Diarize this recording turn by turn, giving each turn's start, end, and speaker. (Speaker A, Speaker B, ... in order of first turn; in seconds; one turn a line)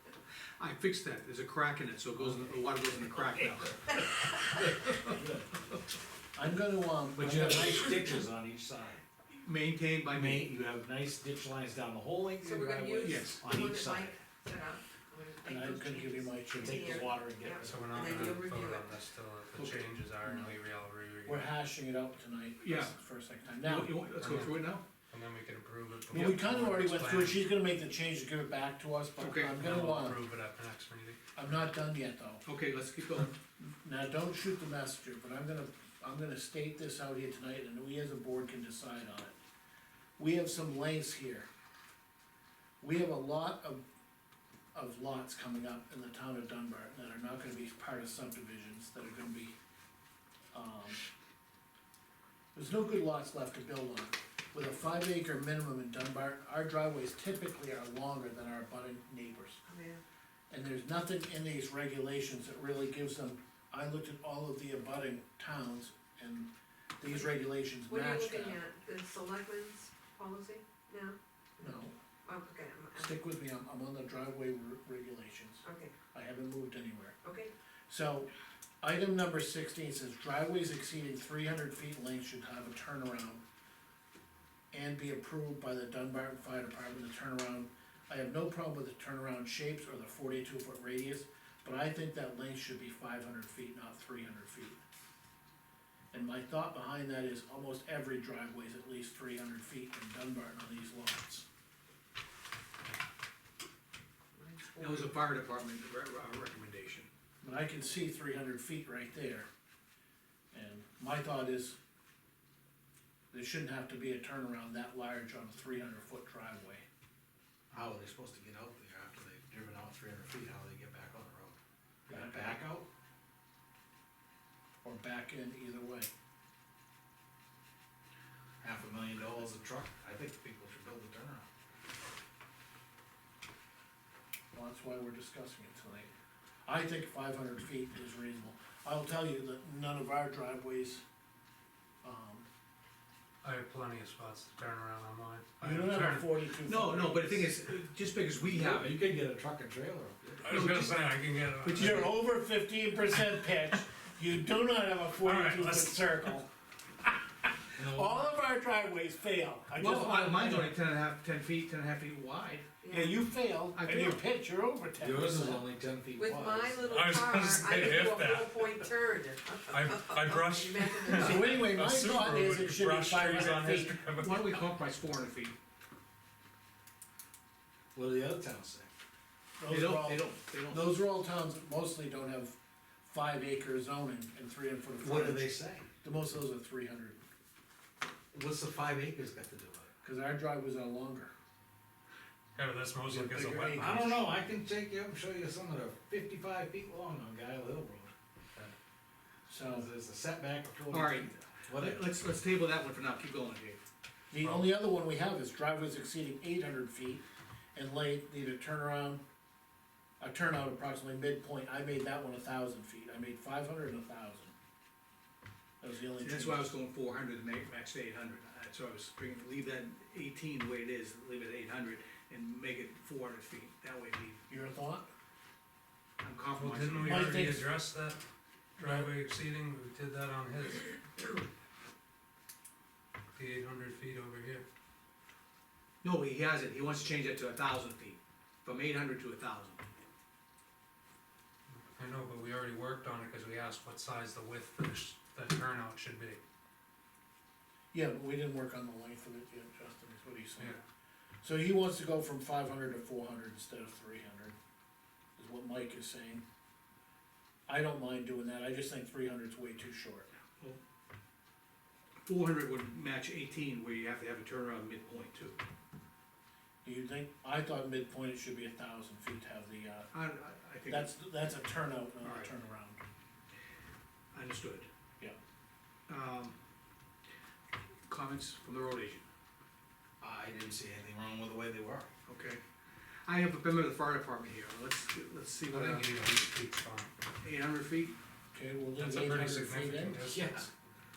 Speaker A: 0.6-4.3
Speaker B: 4.7-5.5
Speaker A: 4.8-5.1
Speaker C: 6.3-8.0
Speaker B: 7.1-9.0
Speaker A: 9.3-10.5
Speaker B: 10.1-14.2
Speaker D: 12.4-18.9
Speaker A: 13.0-13.4
Speaker C: 15.4-17.5
Speaker B: 16.5-17.8
Speaker E: 17.6-21.5
Speaker A: 19.6-19.8
Speaker C: 21.2-24.0
Speaker A: 22.6-22.9
Speaker A: 23.6-24.8
Speaker E: 24.2-27.4
Speaker C: 26.1-30.2
Speaker A: 26.1-26.4
Speaker A: 29.2-29.6
Speaker E: 29.5-31.2
Speaker C: 31.4-32.4
Speaker A: 32.4-33.3
Speaker C: 33.6-39.3
Speaker C: 40.2-41.5
Speaker C: 42.8-43.8
Speaker C: 44.7-49.5
Speaker C: 50.5-51.0
Speaker C: 52.5-59.6
Speaker D: 59.6-60.0
Speaker C: 60.5-68.6
Speaker D: 67.9-73.2
Speaker C: 71.6-72.0
Speaker C: 73.0-77.2
Speaker D: 75.6-75.9
Speaker D: 77.2-77.5
Speaker C: 77.9-78.3
Speaker C: 78.8-83.4
Speaker C: 84.7-94.8
Speaker C: 96.1-101.5
Speaker D: 104.3-105.2
Speaker A: 104.8-107.1
Speaker C: 107.4-109.5
Speaker C: 110.5-111.8
Speaker C: 113.3-116.8
Speaker B: 117.7-122.9
Speaker C: 122.1-122.7
Speaker C: 124.8-126.1
Speaker B: 128.6-131.5
Speaker C: 134.5-136.1
Speaker C: 136.7-141.0
Speaker C: 142.0-142.4
Speaker E: 143.4-146.3
Speaker C: 145.6-147.5
Speaker A: 146.6-149.0
Speaker B: 148.4-150.7
Speaker E: 150.4-152.2
Speaker A: 150.5-150.9
Speaker A: 151.6-152.1
Speaker C: 151.7-156.5
Speaker E: 155.2-155.9
Speaker C: 157.0-160.7
Speaker B: 157.8-158.3
Speaker A: 159.8-162.7
Speaker D: 162.8-163.2
Speaker C: 162.9-165.7
Speaker A: 163.7-164.2
Speaker B: 165.0-167.1
Speaker D: 166.1-171.6
Speaker E: 166.9-168.8
Speaker E: 169.7-174.6
Speaker C: 171.1-174.0
Speaker A: 174.2-175.5
Speaker B: 177.9-178.9
Speaker C: 179.6-187.2
Speaker A: 179.7-180.9
Speaker B: 185.0-185.9
Speaker B: 188.3-189.9
Speaker C: 190.0-191.3
Speaker E: 192.5-193.9
Speaker C: 193.1-194.3
Speaker B: 193.1-198.7
Speaker C: 199.5-199.9
Speaker B: 199.6-202.1
Speaker A: 200.9-203.8
Speaker C: 204.3-207.2
Speaker E: 204.4-204.7
Speaker C: 207.7-209.2
Speaker C: 210.2-214.5
Speaker C: 215.8-216.7
Speaker A: 216.2-224.4
Speaker C: 224.5-225.1
Speaker A: 226.2-227.4
Speaker E: 226.5-228.2
Speaker C: 227.0-227.7
Speaker C: 228.8-229.1
Speaker E: 228.8-231.0
Speaker E: 233.3-234.6
Speaker A: 236.0-239.8
Speaker E: 241.8-246.4
Speaker C: 247.9-250.8
Speaker C: 251.4-254.6
Speaker C: 255.4-256.4
Speaker C: 257.7-260.3
Speaker A: 262.2-265.6
Speaker C: 266.8-270.1
Speaker A: 270.1-271.1
Speaker C: 270.9-273.0
Speaker A: 272.2-272.5
Speaker A: 274.3-274.9
Speaker A: 276.1-276.6
Speaker A: 278.1-279.2
Speaker B: 280.2-282.1
Speaker A: 282.3-282.6
Speaker A: 283.2-286.5
Speaker E: 285.7-287.1
Speaker A: 287.4-288.1
Speaker C: 288.5-290.2
Speaker E: 288.9-290.7
Speaker B: 290.3-290.7